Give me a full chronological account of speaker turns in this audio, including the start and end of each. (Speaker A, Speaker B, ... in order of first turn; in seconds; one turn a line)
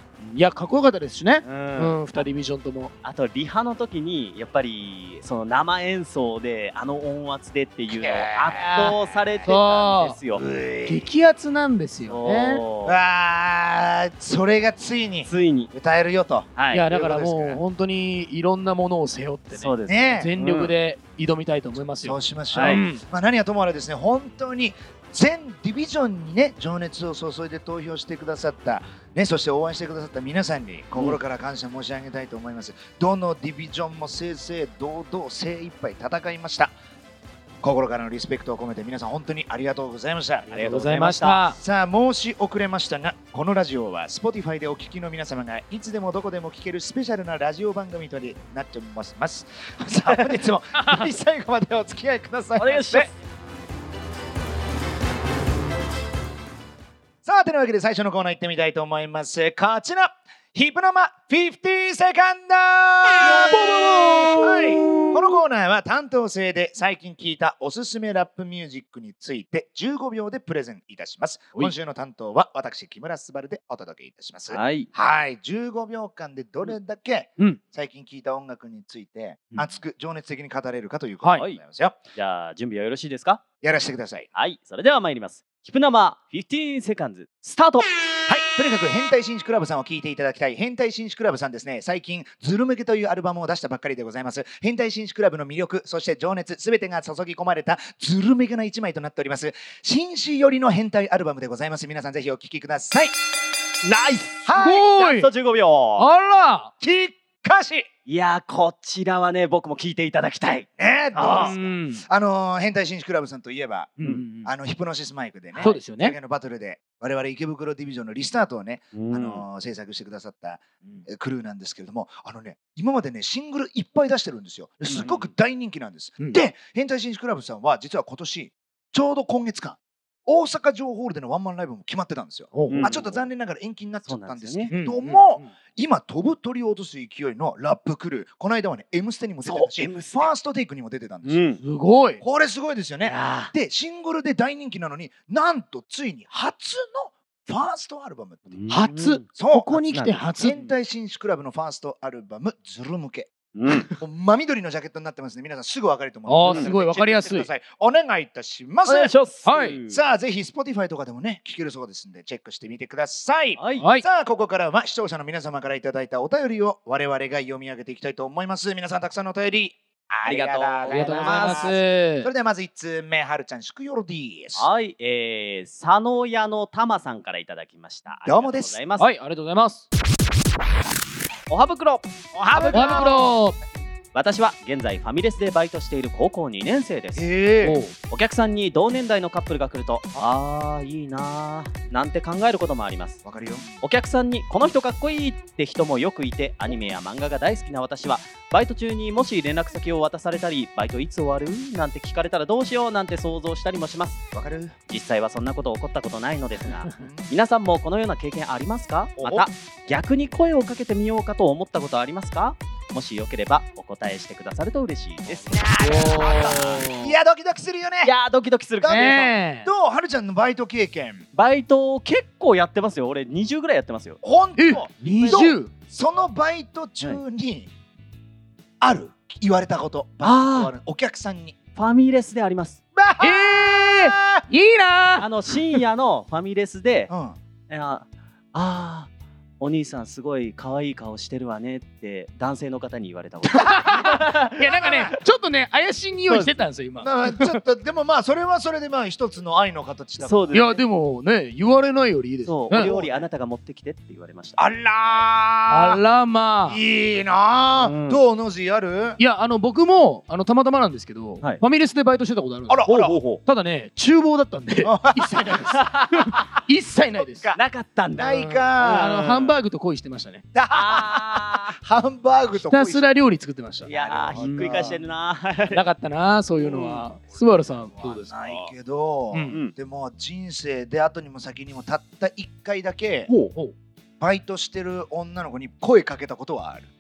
Speaker A: 0.2-2.9
Speaker B: 1.4-2.0
Speaker B: 3.0-10.4
Speaker C: 7.9-9.5
Speaker A: 8.6-9.0
Speaker A: 9.5-10.2
Speaker C: 10.3-11.1
Speaker A: 10.9-12.6
Speaker B: 12.1-13.0
Speaker C: 12.8-17.6
Speaker B: 15.3-15.7
Speaker B: 16.6-16.9
Speaker A: 16.7-23.0
Speaker B: 19.5-20.8
Speaker C: 19.9-20.3
Speaker C: 22.0-36.7
Speaker B: 22.5-22.8
Speaker B: 30.9-31.2
Speaker C: 37.6-40.6
Speaker B: 40.5-41.4
Speaker A: 40.5-41.6
Speaker C: 41.6-53.1
Speaker A: 50.8-51.0
Speaker B: 52.6-53.2
Speaker C: 57.2-63.8
Speaker A: 63.2-65.2
Speaker C: 64.4-82.0
Speaker B: 74.5-74.9
Speaker B: 82.2-83.4
Speaker C: 83.6-84.3
Speaker B: 84.3-87.9
Speaker C: 88.3-103.2
Speaker B: 103.8-106.1
Speaker C: 104.5-104.9
Speaker A: 104.5-105.3
Speaker A: 106.0-106.7
Speaker C: 106.8-107.9
Speaker B: 108.1-111.6
Speaker C: 110.8-141.5
Speaker A: 111.2-112.0
Speaker A: 114.0-114.5
Speaker A: 115.6-116.2
Speaker B: 118.9-119.4
Speaker B: 124.9-125.3
Speaker A: 132.5-132.9
Speaker B: 132.7-133.3
Speaker B: 134.1-134.7
Speaker A: 134.7-135.5
Speaker B: 139.4-140.3
Speaker B: 141.2-141.6
Speaker A: 141.6-142.2
Speaker C: 142.2-148.5
Speaker B: 143.0-143.5
Speaker B: 148.5-149.2
Speaker A: 148.7-150.6
Speaker C: 149.4-153.3
Speaker B: 149.9-150.7
Speaker B: 153.6-153.9
Speaker C: 154.0-159.2
Speaker A: 156.3-157.5
Speaker B: 156.4-156.7
Speaker B: 158.9-160.0
Speaker A: 159.4-159.8
Speaker C: 159.9-174.7
Speaker B: 163.6-163.8
Speaker A: 163.8-164.1
Speaker B: 170.3-171.8
Speaker A: 170.9-172.3
Speaker B: 174.6-179.1
Speaker C: 178.2-178.8
Speaker A: 179.0-179.9
Speaker B: 181.5-183.2
Speaker C: 182.3-183.4
Speaker A: 182.7-183.6
Speaker B: 184.1-187.3
Speaker C: 187.2-187.8
Speaker A: 187.6-187.9
Speaker B: 188.1-193.2
Speaker C: 193.2-193.7
Speaker B: 193.8-204.2
Speaker C: 204.3-204.8
Speaker B: 204.9-216.8
Speaker C: 206.9-207.3
Speaker C: 209.2-209.5
Speaker C: 215.3-218.1
Speaker A: 215.8-217.1
Speaker B: 218.0-219.3
Speaker C: 218.8-221.2
Speaker A: 218.9-219.7
Speaker B: 221.3-224.2
Speaker C: 224.2-227.7
Speaker A: 224.6-225.7
Speaker B: 225.0-225.5
Speaker C: 228.8-231.6
Speaker B: 230.2-230.7
Speaker B: 231.8-232.8
Speaker C: 233.0-234.4
Speaker A: 233.2-235.3
Speaker B: 235.2-237.1
Speaker C: 237.1-237.4
Speaker B: 237.7-244.5
Speaker A: 243.5-247.5
Speaker C: 244.6-245.1
Speaker B: 246.3-246.6
Speaker C: 247.0-250.6
Speaker B: 250.2-250.8
Speaker A: 250.5-252.9
Speaker B: 252.4-255.3
Speaker C: 252.7-253.3
Speaker C: 254.6-256.0
Speaker A: 255.7-256.8
Speaker C: 256.7-259.2
Speaker B: 257.8-258.2
Speaker A: 259.2-267.5
Speaker C: 262.7-263.2
Speaker B: 262.9-263.4
Speaker C: 264.8-265.8
Speaker B: 265.6-266.3
Speaker C: 267.1-267.6
Speaker B: 267.6-269.4
Speaker C: 268.1-269.5
Speaker A: 268.3-270.4
Speaker C: 270.5-275.0
Speaker B: 270.7-271.7
Speaker A: 272.5-275.0
Speaker B: 273.9-275.8
Speaker A: 275.7-278.7
Speaker C: 276.6-283.3
Speaker B: 276.6-277.1
Speaker A: 279.3-279.6
Speaker B: 279.5-279.7
Speaker B: 283.3-283.5
Speaker C: 284.2-286.9